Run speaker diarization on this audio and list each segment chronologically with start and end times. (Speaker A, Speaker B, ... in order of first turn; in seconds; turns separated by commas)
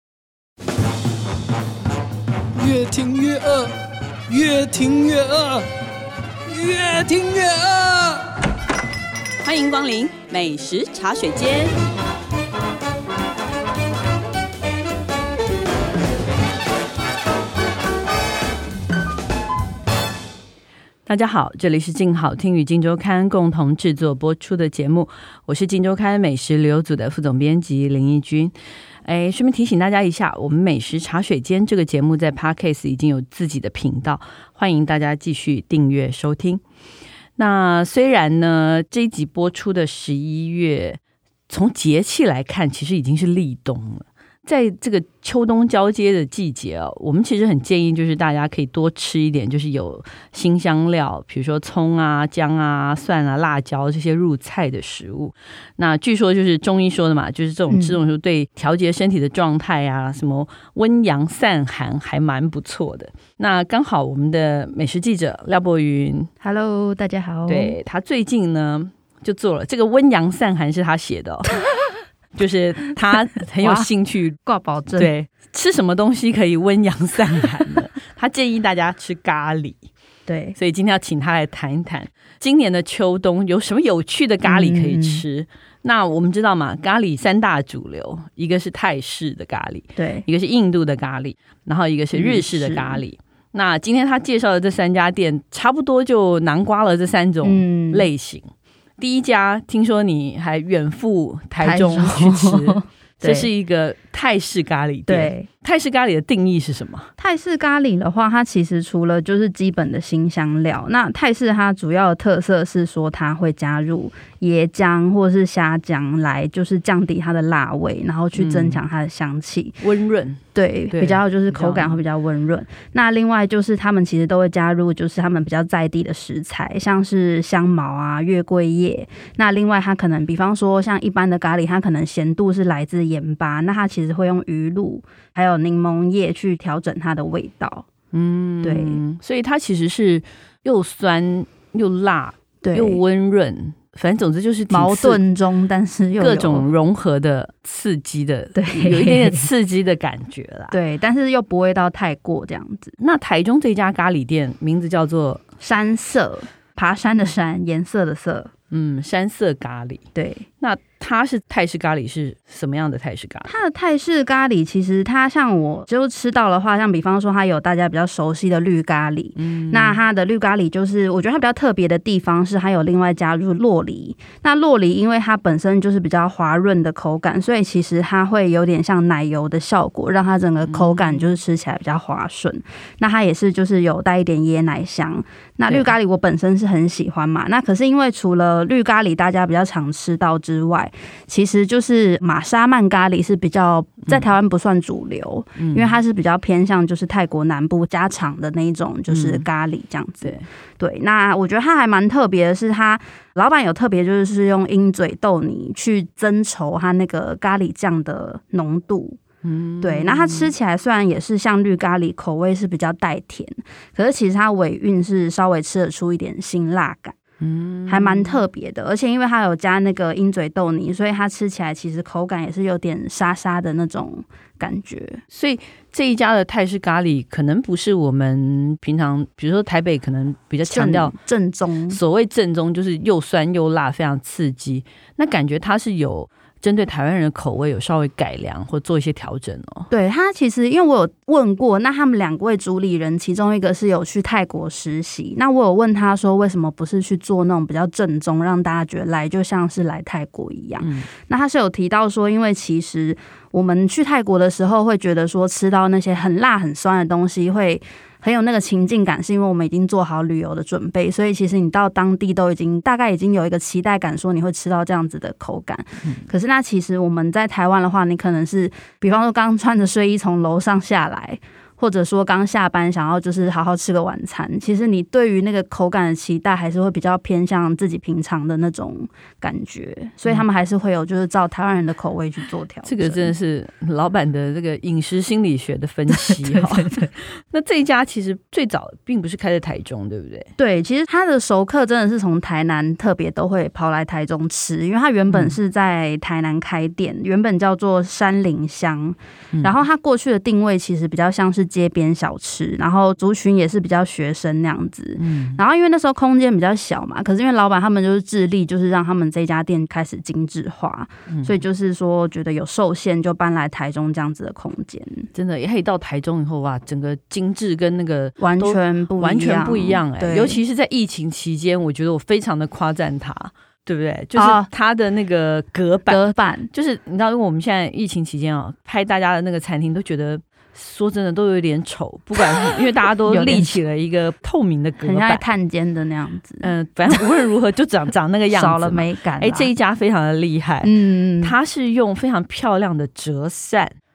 Speaker A: 2.6-3.7, Speaker A: 4.3-5.7, Speaker A: 6.5-8.3, Speaker B: 9.4-11.8, Speaker B: 21.1-28.5, Speaker B: 29.1-36.6, Speaker B: 37.4-66.3, Speaker C: 57.7-58.0, Speaker C: 66.4-67.8, Speaker B: 67.5-71.5, Speaker B: 72.3-74.4, Speaker C: 73.6-73.9, Speaker C: 74.4-75.1, Speaker B: 75.0-79.8, Speaker C: 80.3-80.6, Speaker B: 80.6-98.5, Speaker C: 84.4-85.2, Speaker C: 90.0-90.3, Speaker C: 92.1-93.0, Speaker C: 97.4-98.1, Speaker B: 99.0-107.1, Speaker C: 101.6-103.5, Speaker C: 105.1-105.5, Speaker C: 107.2-119.8, Speaker B: 118.4-118.8, Speaker B: 119.8-122.0, Speaker C: 120.5-137.9, Speaker B: 138.1-145.2, Speaker C: 138.6-139.0, Speaker C: 142.6-143.0, Speaker C: 144.7-146.7, Speaker B: 146.2-150.8, Speaker C: 148.6-149.5, Speaker C: 150.7-153.0, Speaker B: 153.0-155.4, Speaker C: 155.6-158.5, Speaker B: 158.7-160.0, Speaker C: 160.2-160.5, Speaker B: 160.6-163.5, Speaker C: 163.4-209.2, Speaker B: 169.4-170.0, Speaker B: 180.7-181.3, Speaker B: 195.6-196.0, Speaker B: 199.1-199.4, Speaker B: 209.4-210.5, Speaker C: 209.8-217.2, Speaker B: 217.4-218.4, Speaker C: 217.9-225.2, Speaker B: 225.3-231.2, Speaker C: 230.7-232.0, Speaker B: 231.9-239.9, Speaker C: 239.9-283.3, Speaker B: 250.8-251.1, Speaker B: 282.9-290.5, Speaker C: 286.1-287.1, Speaker C: 290.6-315.3, Speaker B: 295.3-295.6, Speaker B: 305.2-305.6, Speaker B: 311.3-311.6, Speaker B: 315.3-326.2, Speaker C: 318.4-320.6, Speaker C: 324.4-324.7, Speaker C: 326.1-326.7, Speaker B: 326.7-335.4, Speaker C: 333.3-333.8, Speaker C: 335.0-337.2, Speaker B: 336.6-344.0, Speaker C: 338.5-339.7, Speaker C: 340.8-341.6